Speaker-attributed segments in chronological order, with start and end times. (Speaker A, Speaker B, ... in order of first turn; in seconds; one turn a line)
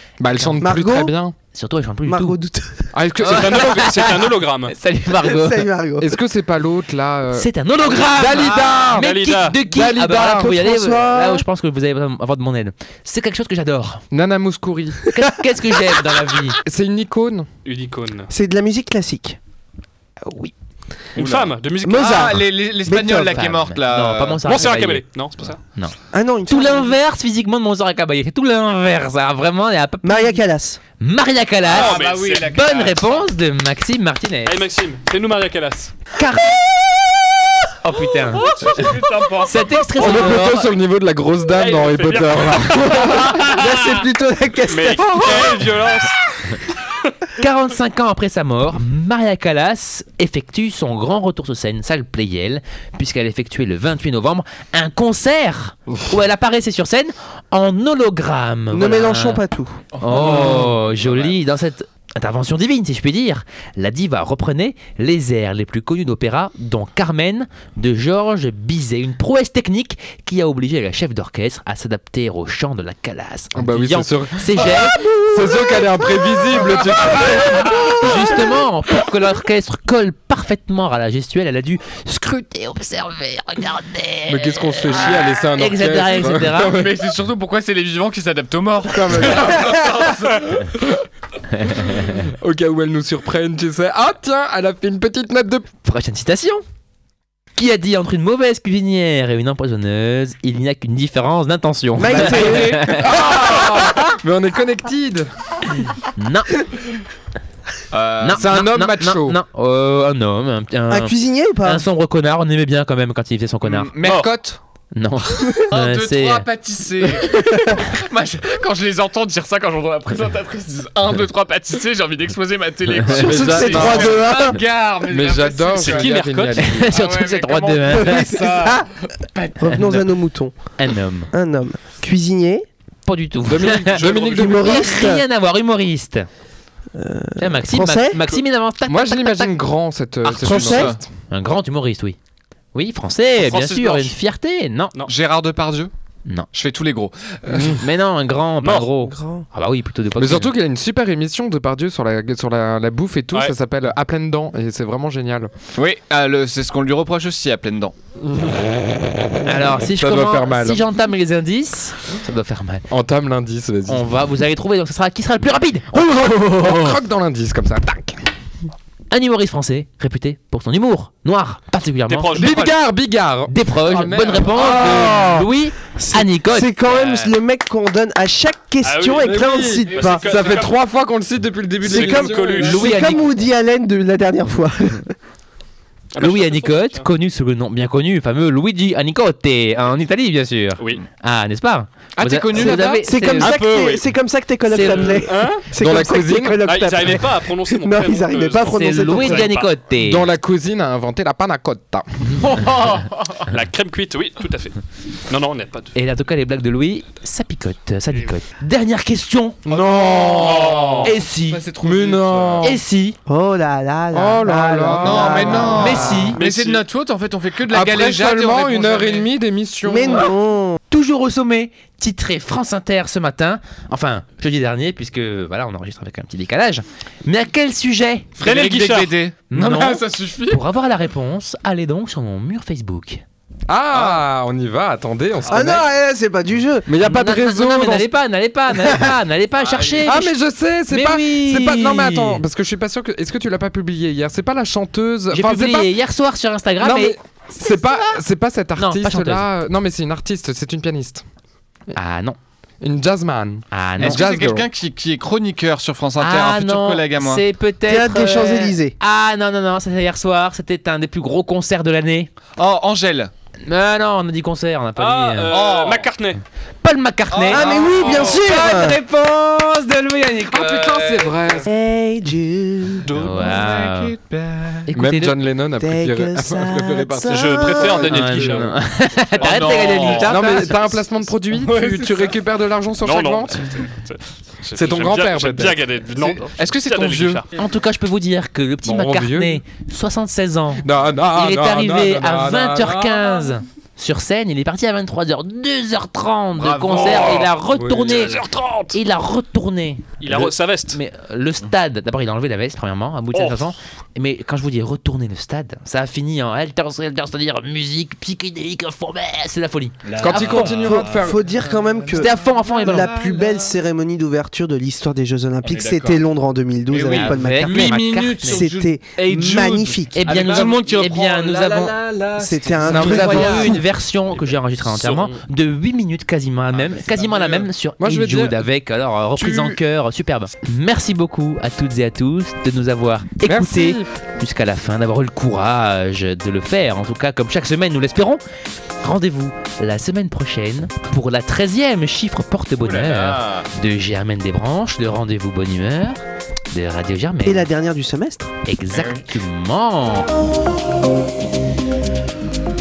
Speaker A: 0.2-1.4
Speaker B: 0.3-0.6
Speaker C: 0.6-1.1
Speaker B: 1.5-2.4
Speaker C: 2.0-2.9
Speaker A: 2.9-3.9
Speaker B: 3.2-5.7
Speaker D: 3.2-4.7
Speaker C: 5.1-6.1
Speaker A: 6.0-9.1
Speaker B: 7.3-14.0
Speaker D: 8.7-9.6
Speaker A: 9.7-10.4
Speaker C: 9.9-11.4
Speaker A: 14.1-15.0
Speaker B: 15.1-16.6
Speaker A: 16.6-17.5
Speaker D: 17.6-18.3
Speaker C: 18.3-19.4
Speaker B: 20.2-20.5
Speaker D: 21.2-22.3
Speaker E: 21.2-24.5
Speaker C: 21.8-23.4
Speaker B: 23.3-25.0
Speaker D: 24.4-25.6
Speaker B: 25.7-30.4
Speaker C: 26.1-27.0
Speaker C: 30.0-30.8
Speaker B: 31.0-34.6
Speaker D: 31.7-32.5
Speaker E: 31.7-33.3
Speaker D: 34.5-35.9
Speaker B: 36.2-36.5
Speaker B: 37.8-40.7
Speaker D: 38.3-40.2
Speaker E: 38.5-39.8
Speaker A: 40.0-43.3
Speaker D: 41.5-44.0
Speaker C: 42.9-45.8
Speaker D: 44.7-46.9
Speaker B: 47.4-59.4
Speaker C: 58.7-59.8
Speaker E: 59.9-61.4
Speaker B: 60.0-75.0
Speaker A: 60.3-60.6
Speaker A: 73.5-77.9
Speaker B: 77.7-86.9
Speaker A: 84.3-86.9
Speaker E: 86.7-90.5
Speaker A: 88.9-91.0
Speaker B: 91.7-92.1
Speaker A: 91.9-95.7
Speaker B: 95.8-96.6
Speaker B: 97.6-103.2
Speaker C: 102.0-103.5
Speaker A: 102.1-105.3
Speaker B: 106.2-106.5
Speaker E: 107.9-108.5
Speaker B: 108.2-113.9
Speaker A: 108.3-109.4
Speaker C: 110.9-111.8
Speaker E: 113.6-114.6
Speaker B: 114.9-116.5
Speaker E: 115.7-126.1
Speaker C: 117.4-117.8
Speaker B: 122.9-123.5
Speaker A: 123.2-126.9
Speaker C: 123.2-124.6
Speaker D: 125.8-126.6
Speaker B: 126.6-128.4
Speaker E: 126.8-129.7
Speaker C: 127.8-128.9
Speaker C: 129.6-130.6
Speaker B: 129.7-130.1
Speaker B: 130.8-131.3
Speaker C: 131.3-132.7
Speaker B: 133.1-136.3
Speaker A: 133.4-134.8
Speaker D: 133.9-134.7
Speaker C: 134.3-135.2
Speaker C: 136.9-138.2
Speaker B: 137.4-139.5
Speaker A: 138.9-141.1
Speaker E: 140.3-141.0
Speaker C: 140.4-140.9
Speaker B: 141.3-142.2
Speaker B: 142.7-145.0
Speaker D: 143.4-144.1
Speaker E: 145.1-145.9
Speaker E: 146.5-147.8
Speaker A: 147.5-147.8
Speaker B: 147.7-150.5
Speaker D: 148.6-148.9
Speaker C: 149.0-149.5
Speaker A: 150.2-155.5
Speaker E: 155.8-157.9
Speaker A: 158.3-160.8
Speaker B: 159.4-162.8
Speaker A: 162.9-164.1
Speaker B: 163.9-167.0
Speaker A: 166.5-168.2
Speaker B: 169.1-172.6
Speaker D: 172.1-172.8
Speaker A: 172.3-175.5
Speaker B: 173.5-177.3
Speaker C: 174.5-175.3
Speaker C: 176.0-180.6
Speaker D: 178.8-180.8
Speaker A: 179.2-182.9
Speaker C: 181.8-185.1
Speaker D: 181.9-183.2
Speaker B: 182.6-183.2
Speaker D: 186.1-187.1
Speaker B: 186.2-193.7
Speaker E: 192.2-193.1
Speaker C: 192.7-199.5
Speaker D: 193.3-194.0
Speaker B: 194.7-195.3
Speaker D: 194.8-195.7
Speaker A: 195.7-196.6
Speaker D: 196.6-199.7
Speaker B: 198.7-200.3
Speaker A: 199.9-202.4
Speaker E: 202.4-203.4
Speaker D: 203.4-205.9
Speaker B: 205.9-209.6
Speaker A: 209.7-211.1
Speaker E: 209.7-212.8
Speaker D: 210.4-211.1
Speaker B: 211.0-211.6
Speaker A: 211.8-212.8
Speaker B: 212.6-213.2
Speaker C: 213.3-216.4
Speaker A: 214.1-216.2
Speaker E: 215.0-219.3
Speaker B: 215.7-216.4
Speaker D: 216.4-216.8
Speaker A: 217.7-220.3
Speaker C: 219.8-220.8
Speaker B: 220.9-228.3
Speaker E: 228.4-230.6
Speaker D: 228.4-229.1
Speaker B: 229.5-233.2
Speaker A: 233.7-235.8
Speaker C: 235.5-236.9
Speaker A: 236.9-238.1
Speaker B: 237.0-240.3
Speaker E: 239.6-240.1
Speaker A: 240.0-245.9
Speaker B: 240.9-242.4
Speaker B: 245.3-247.2
Speaker A: 246.8-251.2
Speaker B: 248.8-249.5
Speaker B: 251.9-252.4
Speaker A: 252.8-254.7
Speaker B: 253.7-254.2
Speaker E: 254.0-257.4
Speaker B: 256.2-262.3
Speaker C: 257.9-258.9
Speaker E: 262.6-263.3
Speaker B: 263.7-265.6
Speaker D: 265.0-266.4
Speaker E: 265.5-266.1
Speaker B: 266.8-270.8
Speaker E: 267.3-268.7
Speaker C: 267.5-269.0
Speaker A: 270.5-271.7
Speaker E: 270.6-271.7
Speaker C: 271.7-273.1
Speaker D: 273.1-273.6
Speaker B: 273.1-274.1
Speaker E: 273.2-274.9
Speaker B: 274.9-275.4
Speaker A: 274.9-278.7
Speaker C: 275.8-278.1
Speaker D: 277.3-280.2
Speaker B: 278.1-281.0
Speaker E: 279.4-280.7
Speaker A: 280.3-283.9
Speaker E: 281.6-282.3
Speaker D: 283.0-287.5
Speaker A: 284.7-286.4
Speaker E: 286.6-287.5
Speaker B: 287.6-298.4
Speaker A: 288.8-289.6
Speaker A: 290.8-293.5
Speaker E: 296.6-297.5
Speaker D: 296.9-297.5
Speaker A: 297.7-298.2
Speaker D: 298.0-299.0
Speaker B: 298.9-311.0
Speaker D: 300.2-301.0
Speaker D: 303.3-303.7
Speaker E: 310.1-313.7
Speaker A: 310.2-311.4
Speaker C: 310.9-320.2
Speaker B: 312.1-313.1
Speaker E: 315.6-316.2
Speaker E: 316.9-323.8
Speaker B: 317.1-318.7
Speaker B: 320.1-322.0
Speaker C: 322.4-323.8
Speaker B: 322.8-338.4
Speaker A: 322.9-323.3
Speaker D: 324.8-325.4
Speaker E: 326.7-327.7
Speaker A: 328.0-328.6
Speaker A: 329.4-329.8
Speaker A: 333.4-334.1
Speaker B: 339.0-347.7
Speaker E: 342.8-343.7
Speaker C: 347.4-348.5
Speaker B: 348.7-350.3
Speaker E: 348.9-349.3